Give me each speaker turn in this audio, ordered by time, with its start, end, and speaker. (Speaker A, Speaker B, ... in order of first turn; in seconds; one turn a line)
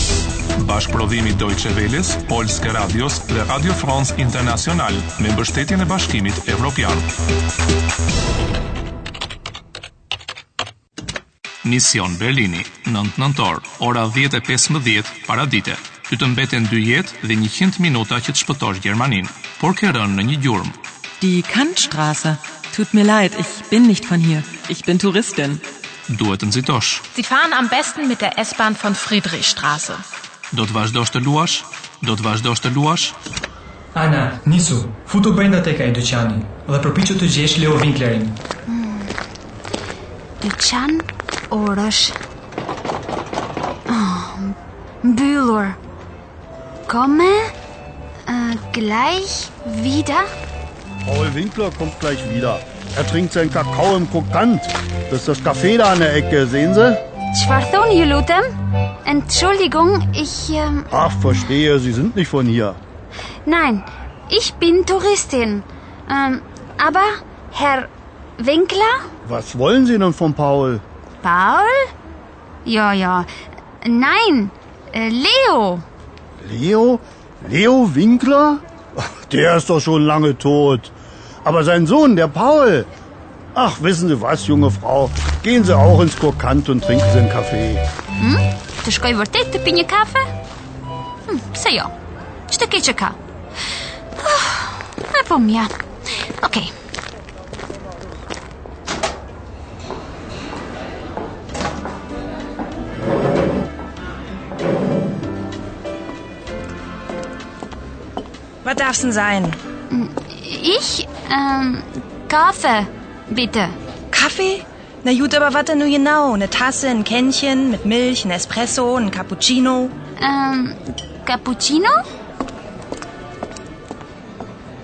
Speaker A: 0.6-7.1
Speaker A: 11.6-20.8
Speaker B: 21.2-25.6
Speaker A: 26.1-27.1
Speaker C: 27.1-30.0
Speaker D: 27.2-27.6
Speaker A: 30.5-33.1
Speaker E: 33.9-38.4
Speaker F: 38.7-39.1
Speaker F: 40.4-42.2
Speaker F: 43.9-45.8
Speaker F: 46.9-47.5
Speaker F: 48.3-50.3
Speaker G: 51.0-57.0
Speaker F: 57.3-58.4
Speaker F: 59.1-60.9
Speaker G: 60.9-62.8
Speaker F: 63.5-69.0
Speaker G: 69.2-70.8
Speaker F: 71.2-71.8
Speaker F: 72.7-73.3
Speaker F: 73.8-75.8
Speaker G: 76.4-82.9
Speaker G: 83.5-87.8
Speaker F: 88.2-90.2
Speaker F: 91.3-91.9
Speaker F: 92.5-93.2
Speaker F: 94.2-95.7
Speaker F: 96.4-96.7
Speaker D: 108.6-109.6
Speaker F: 109.9-113.8
Speaker D: 114.1-119.9
Speaker F: 120.2-122.0